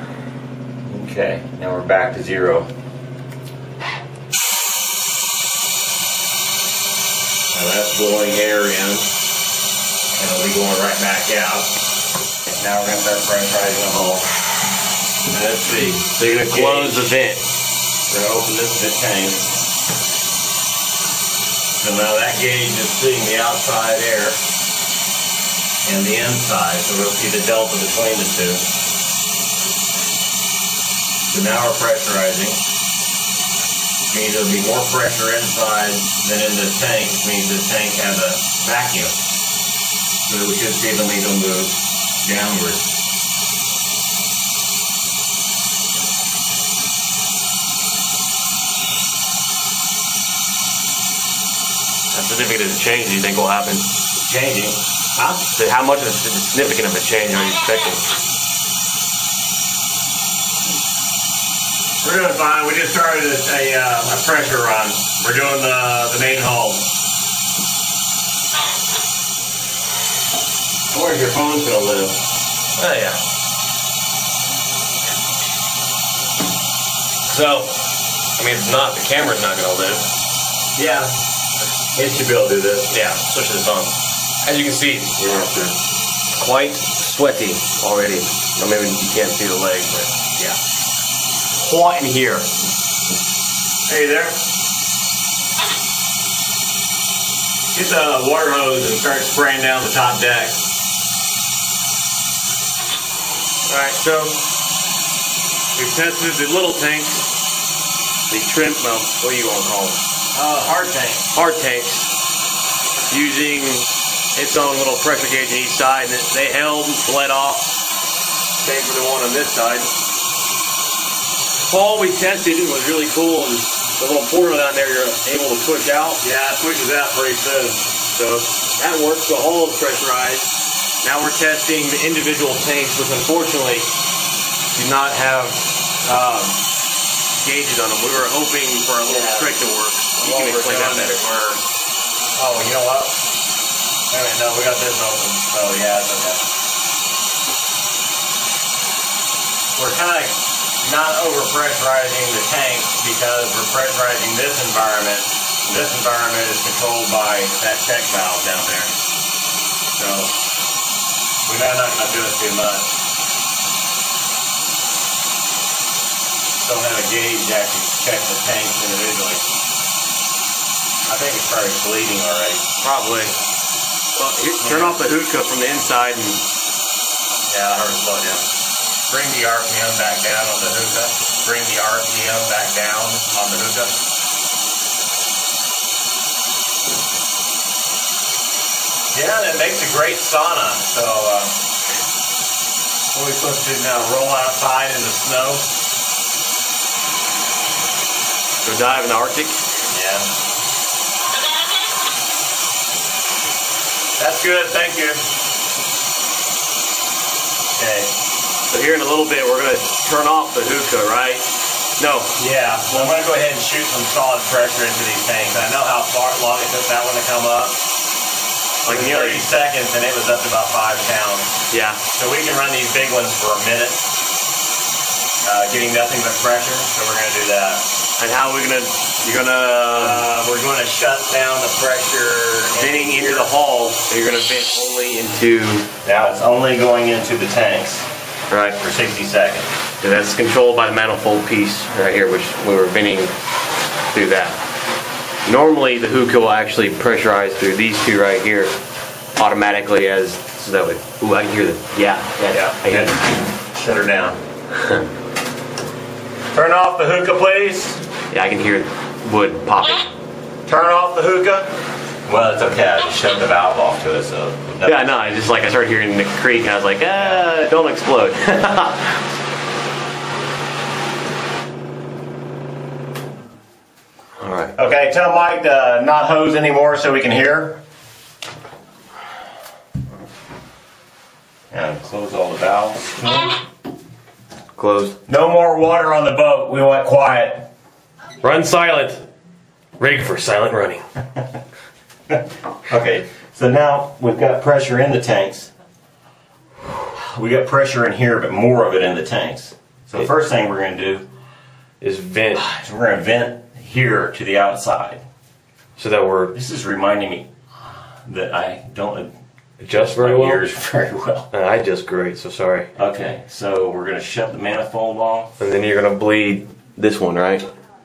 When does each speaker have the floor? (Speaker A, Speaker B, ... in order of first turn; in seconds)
Speaker A: 0.8-2.7, 7.5-9.1, 10.1-11.7, 12.4-14.3, 15.3-17.2, 18.1-19.5, 21.8-24.4, 25.8-28.6, 31.3-32.6, 34.1-39.1, 40.3-42.9, 54.2-55.4, 62.0-66.8, 70.9-72.1, 80.8-81.1, 81.9-82.9, 85.2-85.7, 93.9-94.4, 97.7-100.6, 110.3-111.3, 126.2-128.4, 139.0-141.5, 142.3-143.2, 144.1-146.4, 149.8-158.9, 159.9-160.3, 161.4-162.9, 166.6-169.4, 171.1-172.6, 174.6-175.1, 177.5-178.4, 179.1-184.0, 189.1-191.5, 193.1-195.7, 199.9-200.3, 204.2-205.2, 207.8-208.1, 212.4-217.8, 218.8-221.6, 222.1-224.0, 225.4-227.8, 229.9-233.5, 236.0-238.1, 238.8-239.7, 252.5-254.4, 256.5-258.0, 260.6-261.7, 262.2-265.1, 267.2-267.4, 274.8-277.8, 281.7-283.6, 285.3-287.7, 292.3-295.7, 297.1-301.3, 302.6-305.2, 306.5-307.5, 308.2-309.3, 309.9-311.5, 312.9-315.5
Speaker B: 16.2-17.4, 52.1-53.9, 55.4-58.0, 72.8-73.2, 77.3-77.7, 78.4-80.0, 82.9-85.3, 86.3-90.6, 91.5-92.5, 103.7-104.3, 105.8-107.3, 108.3-110.0, 111.3-112.1, 113.1-113.8, 114.3-117.7, 118.6-119.9, 121.6-126.2, 128.8-130.5, 131.0-133.9, 134.7-136.6, 137.4-141.6, 172.8-173.3, 174.2-176.4, 198.6-199.6, 208.7-212.3, 218.8-219.4, 221.7-222.0, 228.2-230.2, 232.7-236.1, 238.5-238.8, 240.0-243.3, 244.1-244.6, 245.4-248.7, 249.3-253.2, 258.3-260.1, 264.8-269.2, 274.4-274.7, 284.7-285.2, 288.4-289.2, 290.0-291.0, 302.0-302.6, 306.0-306.5, 309.8-310.7, 311.5-312.9, 315.6-317.6